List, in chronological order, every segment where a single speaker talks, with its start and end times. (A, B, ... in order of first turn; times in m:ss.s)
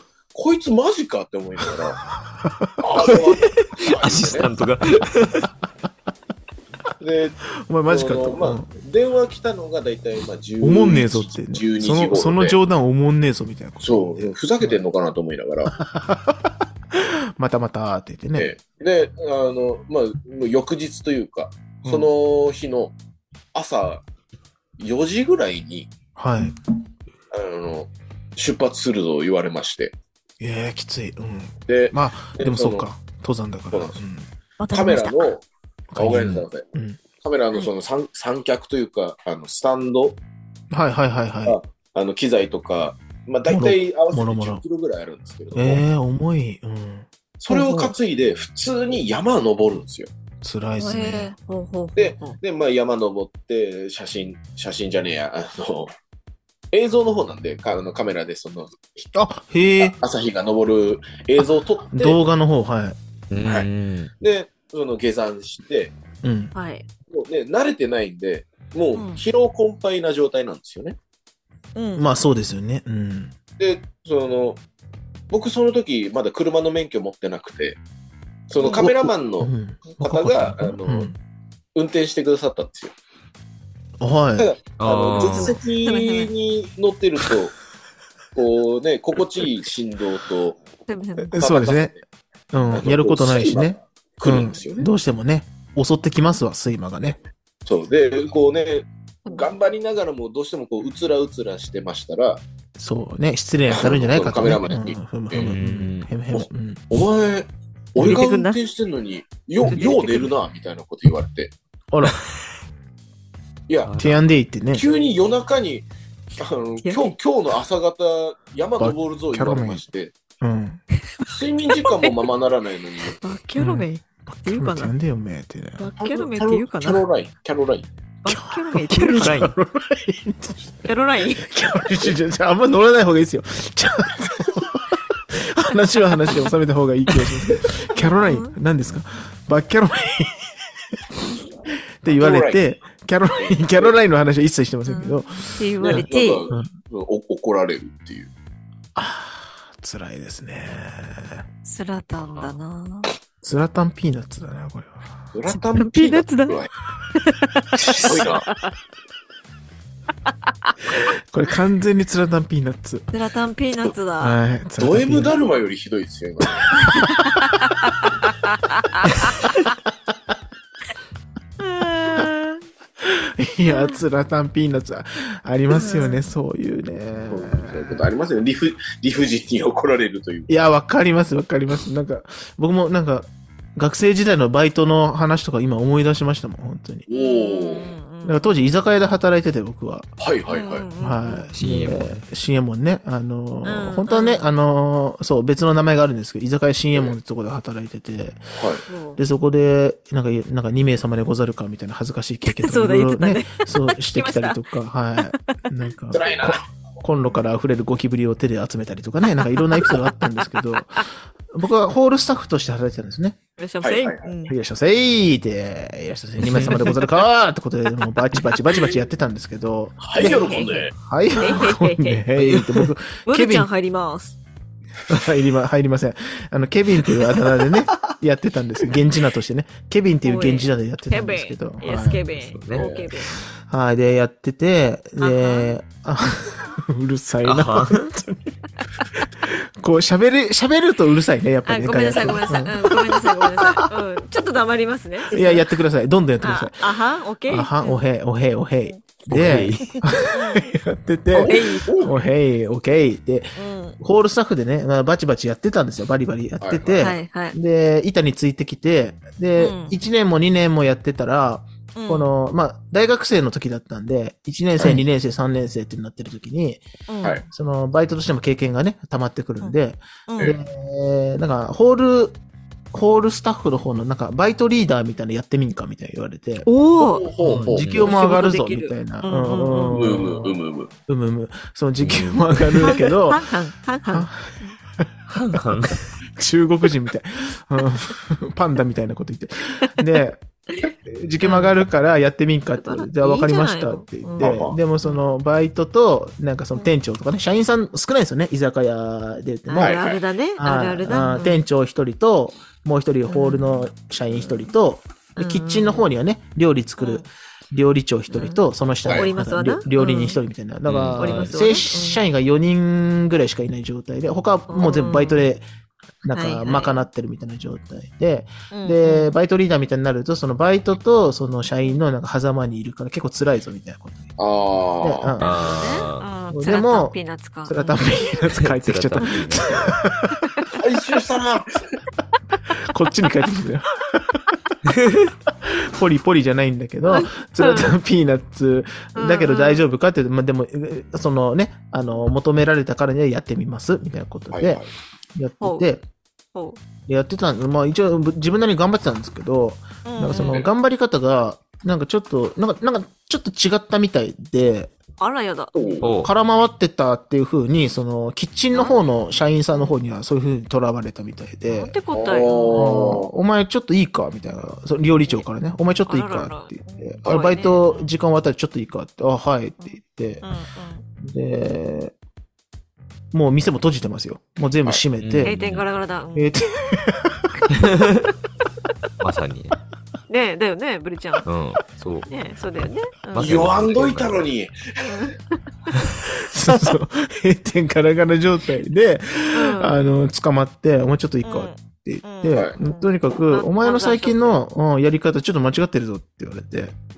0:00.3-0:02.0 A
0:02.4-0:02.7 B
0:02.8-0:04.5 A
0:03.0-0:05.5 C
0:07.0-0:12.6 A
0:07.7-0:08.7 B
0:10.6-0:14.8 B
0:13.8-0:15.7 A
0:15.8-0:18.5 B
0:18.4-0:23.0 A
0:21.8-0:22.1 B
0:23.5-0:24.0 A
0:24.8-0:25.9 A
0:26.2-0:26.6 B
0:27.3-0:30.0 A
0:30.4-0:34.3 B
0:31.7-0:32.8 A
0:33.7-0:34.0 A
0:34.6-0:35.3 D
0:34.7-0:40.2 A
0:35.9-0:37.0 B
0:40.7-0:41.6 B
0:41.4-0:45.8 A
0:43.5-0:44.6 B
0:45.5-0:47.9 B
0:47.4-0:50.1 A
0:50.4-0:51.3 B
0:50.8-0:52.4 D
0:52.0-0:55.9 A
0:56.7-0:59.1 A
0:59.1-1:00.0 B
0:59.8-1:02.2 A
1:01.9-1:03.0 B
1:03.3-1:04.1 C
1:03.4-1:03.7 A
1:04.2-1:05.9 A
1:06.2-1:06.5 B
1:06.5-1:06.8 D
1:07.1-1:11.0 A
1:08.9-1:09.2 D
1:11.7-1:12.1 D
1:12.0-1:13.4 B
1:13.6-1:14.6 A
1:15.3-1:17.8 A
1:18.5-1:21.1 A
1:18.6-1:21.1 B
1:21.7-1:22.9 A
1:24.0-1:24.5 B
1:24.4-1:27.5 A
1:24.8-1:25.6 C
1:25.2-1:26.3 D
1:28.3-1:30.6 A
1:30.9-1:31.4 D
1:31.3-1:31.9 B
1:31.3-1:32.0 A
1:32.5-1:37.2 B
1:32.7-1:34.9 A
1:37.6-1:42.4 A
1:42.8-1:46.8 B
1:43.7-1:45.6 A
1:45.4-1:46.1 C
1:46.3-1:51.5 A
1:48.0-1:48.6 D
1:49.7-1:50.3 D
1:51.9-1:52.2 B
1:53.7-1:54.0 A
1:53.9-1:54.2 C
1:54.0-1:54.8 B
1:54.7-2:00.2 A
1:56.8-1:57.1 D
1:58.8-1:59.8 B
2:00.4-2:00.8 B
2:01.2-2:03.2 A
2:01.9-2:02.2 D
2:03.2-2:04.9 D
2:03.6-2:05.8 B
2:05.8-2:07.0 D
2:06.0-2:07.9 A
2:08.2-2:09.4 D
2:08.2-2:10.9 B
2:08.9-2:09.5 C
2:10.8-2:11.5 D
2:11.4-2:20.7 B
2:18.0-2:18.5 D
2:22.0-2:26.7 B
2:22.1-2:22.6 A
2:23.4-2:23.9 A
2:24.8-2:26.5 D
2:25.8-2:28.3 A
2:28.9-2:31.4 B
2:31.6-2:33.1 D
2:33.4-2:35.1 B
2:35.3-2:36.7 A
2:35.7-2:36.6 D
2:37.1-2:38.7 D
2:37.8-2:38.5 A
2:41.0-2:43.1 B
2:43.1-2:44.4 D
2:44.2-2:45.3 B
2:44.8-2:46.7 A
2:46.6-2:47.1 B
2:46.9-2:49.3 D
2:51.6-2:52.6 D
2:53.0-2:58.0 B
2:53.6-2:54.0 D
2:55.7-2:56.2 D
2:57.3-3:00.5 A
3:00.5-3:07.0 B
3:07.1-3:07.9 A
3:07.1-3:08.5 D
3:08.2-3:10.1 B
3:10.2-3:10.9 A
3:10.5-3:11.5 D
3:11.0-3:18.5 B
3:11.6-3:12.2 C
3:13.6-3:14.4 D
3:18.5-3:18.8 A
3:18.9-3:19.2 D
3:19.2-3:33.4 B
3:22.5-3:24.6 D
3:26.1-3:26.7 A
3:29.4-3:30.0 D
3:33.6-3:34.5 D
3:33.8-3:34.3 A
3:34.5-3:43.7 B
3:36.4-3:36.9 C
3:40.0-3:40.9 A
3:40.2-3:40.8 D
3:41.4-3:42.2 D
3:42.4-3:42.8 C
3:43.2-3:44.4 D
3:45.1-3:52.2 B
3:50.2-3:53.5 D
3:52.4-3:52.9 C
3:52.7-3:53.1 A
3:53.6-3:58.6 B
3:55.2-3:55.7 D
3:57.4-3:58.1 C
3:59.2-4:03.9 B
4:01.6-4:05.6 D
4:05.3-4:06.9 B
4:06.4-4:08.0 D
4:07.5-4:26.8 B
4:09.3-4:10.0 C
4:10.3-4:10.7 D
4:11.3-4:12.2 A
4:11.4-4:12.0 D
4:13.6-4:14.0 D
4:16.6-4:17.1 A
4:17.0-4:17.5 D
4:19.6-4:20.0 D
4:22.0-4:22.3 D
4:27.1-4:27.4 D
4:27.5-4:32.4 B
4:30.3-4:30.5 D
4:32.9-4:36.7 B
4:36.6-4:37.3 D
4:37.0-4:38.1 A
4:37.4-4:43.4 B
4:37.6-4:38.1 C
4:37.8-4:40.2 D
4:39.9-4:40.9 A
4:42.0-4:42.4 C
4:42.8-4:44.8 D
4:44.1-4:45.1 B
4:45.3-4:46.0 C
4:46.4-4:50.4 B
4:51.0-5:00.0 B
4:51.4-4:51.8 D
4:52.8-4:54.5 D
4:54.4-4:54.8 A
4:55.0-4:55.3 D
4:59.7-5:01.6 D
4:59.8-5:00.2 A
5:00.6-5:15.6 B
5:03.3-5:04.7 D
5:05.4-5:06.1 D
5:07.0-5:07.3 D
5:08.3-5:10.4 D
5:10.9-5:11.6 C
5:11.2-5:12.2 D
5:14.7-5:15.5 D
5:16.2-5:24.3 B
5:16.3-5:17.0 D
5:18.7-5:19.3 D
5:24.4-5:25.4 A
5:25.0-5:25.4 B
5:25.4-5:28.0 D
5:25.4-5:26.2 C
5:26.5-5:27.2 B
5:27.7-5:30.3 B
5:28.6-5:29.9 C
5:30.7-5:32.0 A
5:32.8-5:34.6 B
5:34.9-5:35.3 C
5:35.6-5:44.8 B
5:37.0-5:37.9 D
5:39.2-5:39.8 D
5:44.5-5:44.9 A
5:45.3-5:46.0 B
5:45.6-5:45.8 D
5:46.5-5:46.8 D
5:47.1-5:54.9 B
5:50.0-5:50.6 D
5:50.4-5:50.7 A
5:55.2-5:56.0 D
5:55.7-5:56.1 A
5:56.0-5:56.3 C
5:56.1-6:01.9 B
6:01.7-6:02.9 D
6:02.1-6:03.3 A
6:02.7-6:10.4 B
6:06.1-6:08.1 D
6:09.8-6:11.0 D
6:11.2-6:12.1 B
6:13.3-6:15.5 B
6:15.2-6:15.9 C
6:15.4-6:16.5 D
6:16.3-6:17.7 B
6:17.7-6:18.1 C
6:19.2-6:19.8 C
6:20.3-6:21.4 D
6:21.4-6:22.3 C
6:22.3-6:23.7 D
6:23.3-6:24.4 C
6:23.4-6:25.2 A
6:25.0-6:25.6 D
6:26.4-6:37.0 B
6:29.5-6:30.0 D
6:31.4-6:34.5 D
6:32.5-6:32.8 A